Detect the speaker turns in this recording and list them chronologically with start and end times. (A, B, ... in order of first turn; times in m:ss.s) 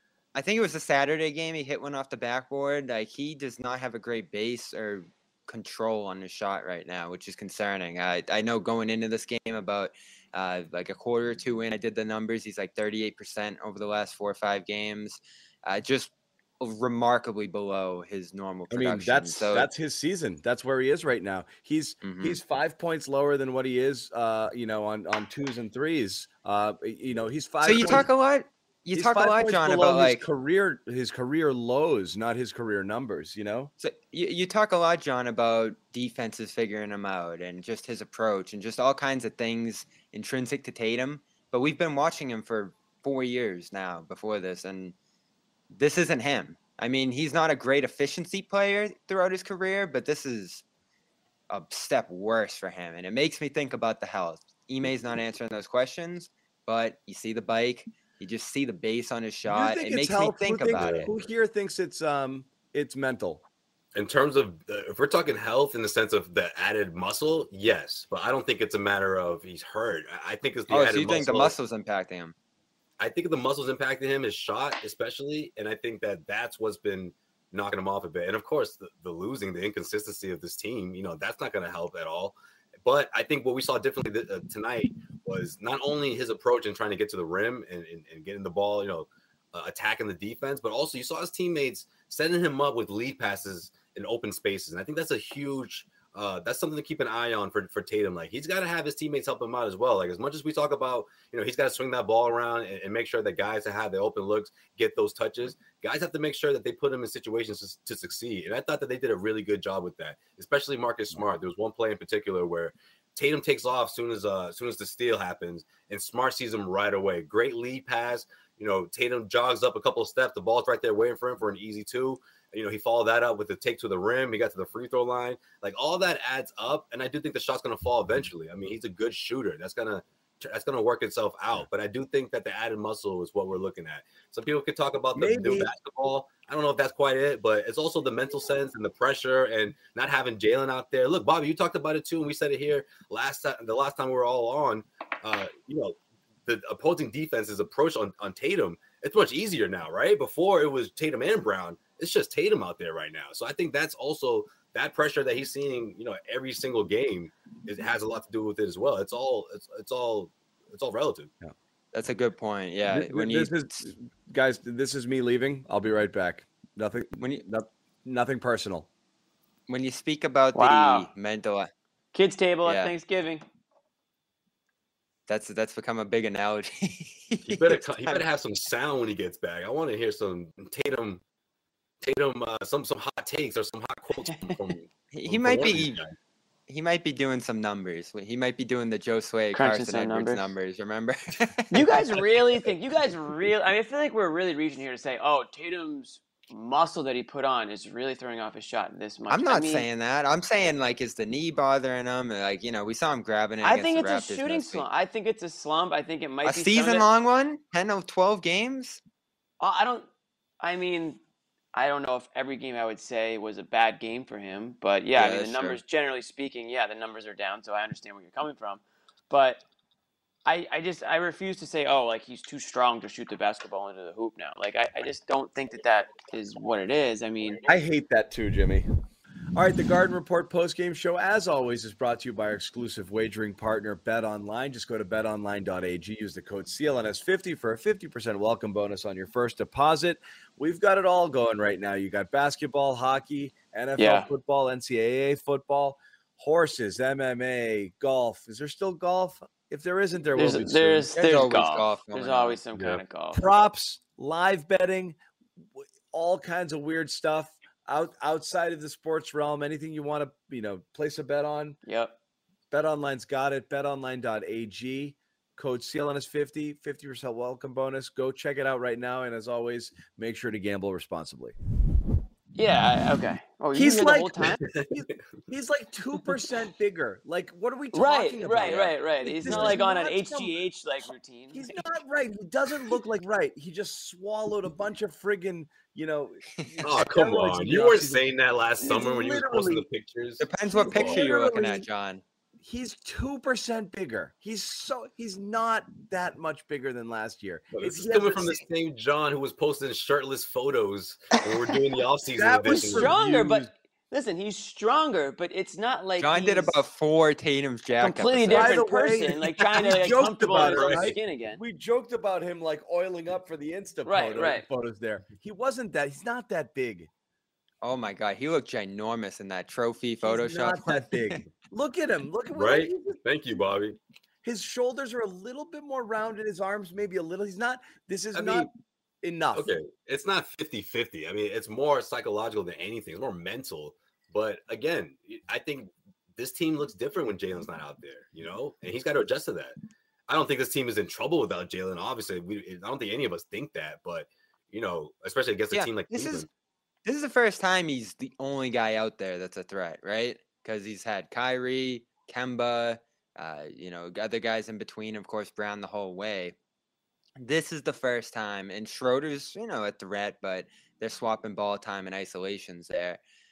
0:00.4-0:19.7 A
0:18.7-0:28.1 B
0:22.0-0:22.4 A
0:27.6-0:30.2 A
0:28.9-0:33.7 B
0:33.8-0:45.0 A
0:45.7-0:50.6 A
0:51.5-1:01.1 A
0:59.5-1:03.4 B
1:00.7-1:01.1 C
1:04.0-1:11.6 C
1:10.7-1:12.4 A
1:13.0-2:41.3 C
2:15.1-2:15.7 B
2:41.9-2:43.9 A
2:42.9-2:48.9 B
2:47.2-2:47.4 A
2:49.7-2:51.7 A
2:50.5-2:51.1 D
2:52.1-2:53.4 D
2:52.6-2:52.9 A
2:55.3-2:58.2 A
2:57.5-3:01.2 C
3:02.0-3:06.1 C
3:05.1-3:06.0 A
3:06.7-3:12.2 A
3:09.5-3:10.5 D
3:11.7-3:19.9 D
3:19.3-3:24.9 A
3:23.6-3:27.1 D
3:26.4-3:29.0 A
3:29.6-3:30.1 D
3:30.6-3:31.2 D
3:31.7-3:39.6 D
3:35.2-3:35.8 A
3:40.5-3:47.7 D
3:47.6-3:48.9 B
3:49.5-4:11.1 B
4:04.0-4:04.3 D
4:10.4-4:13.4 D
4:11.1-4:12.6 A
4:12.8-4:13.0 C
4:13.3-4:15.2 B
4:15.8-4:21.8 B
4:21.9-4:22.1 D
4:22.7-4:31.6 B
4:32.6-4:34.6 D
4:33.7-4:40.6 B
4:37.9-4:41.8 D
4:39.5-4:39.8 C
4:41.5-4:48.3 B
4:46.8-4:51.2 C
4:48.8-4:49.9 B
4:50.4-4:52.2 A
4:50.7-4:51.9 B
4:52.6-4:58.6 B
4:57.7-5:03.1 C
5:02.4-5:03.7 B
5:02.7-5:06.8 D
5:06.2-5:08.8 A
5:08.0-5:11.6 D
5:08.5-5:17.1 B
5:10.6-5:11.2 C
5:14.1-5:14.6 D
5:17.8-5:21.4 A
5:20.2-5:23.2 B
5:22.5-5:24.0 C
5:24.4-5:28.7 B
5:28.3-5:28.7 C
5:29.2-5:29.7 B
5:29.5-5:39.8 C
5:40.3-5:46.5 C
5:45.7-5:46.5 A
5:47.0-5:56.6 A
5:57.4-6:03.2 A